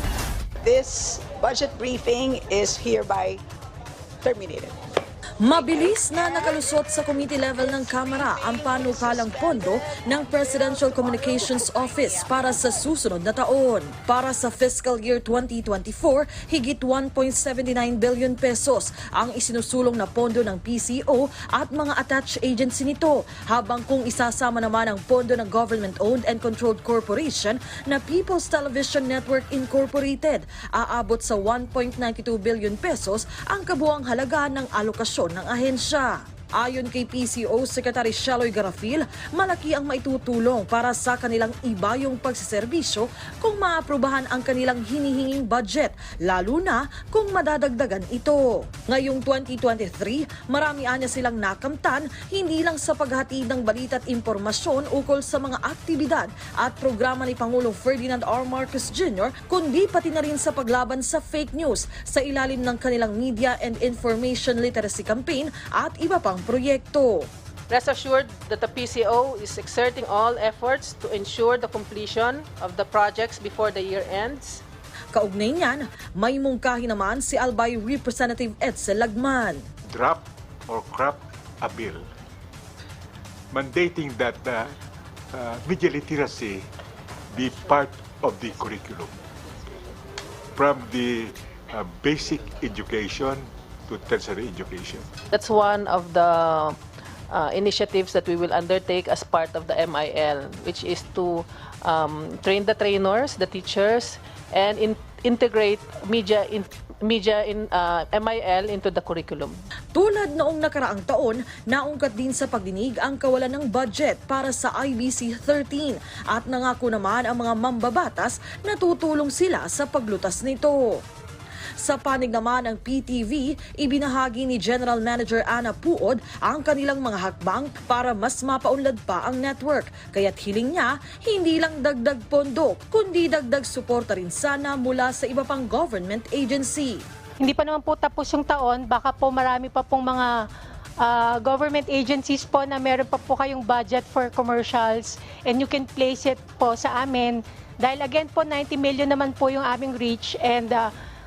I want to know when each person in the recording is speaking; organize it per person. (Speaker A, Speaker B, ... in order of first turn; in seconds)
Speaker A: 0.6-3.4, 4.2-4.8, 8.2-11.1
Speaker B: 5.4-67.3, 75.2-79.6, 110.0-121.0, 121.8-137.0
Speaker C: 67.7-74.6, 95.3-96.8, 97.3-109.6
Speaker D: 79.9-82.0, 83.5-84.8, 85.3-86.7, 87.3-89.1, 90.6-95.1
Speaker E: 137.4-140.3, 141.0-150.9